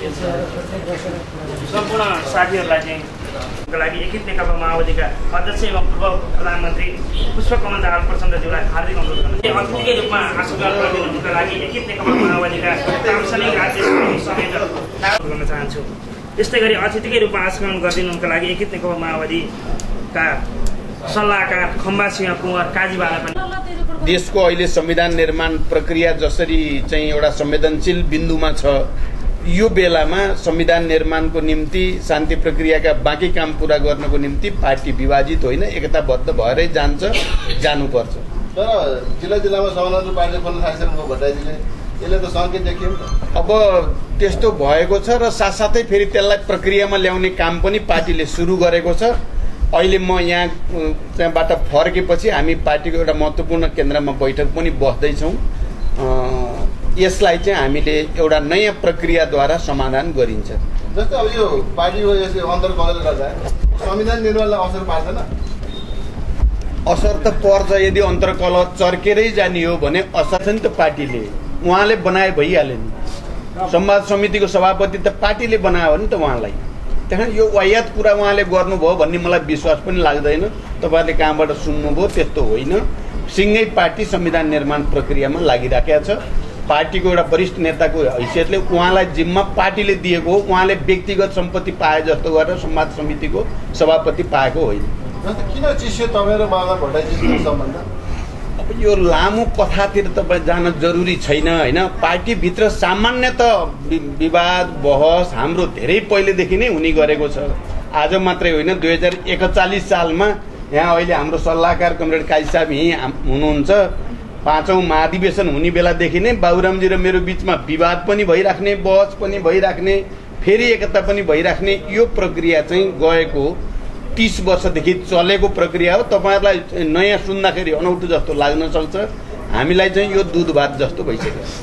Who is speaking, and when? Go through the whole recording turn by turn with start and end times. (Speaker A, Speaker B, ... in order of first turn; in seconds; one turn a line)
Speaker A: 1.6-3.1
Speaker A: 3.7-19.5
Speaker A: 20.1-20.4
Speaker A: 21.1-23.5
Speaker B: 23.9-28.9
Speaker B: 29.4-38.2
Speaker C: 38.5-43.1
Speaker B: 43.3-49.2
Speaker B: 49.7-55.4
Speaker B: 56.0-60.6
Speaker C: 60.9-65.3
Speaker B: 66.9-72.9
Speaker B: 73.7-94.9
Speaker C: 95.2-97.8
Speaker B: 98.6-113.9
Speaker B: 114.4-123.6
Speaker B: 124.1-131.5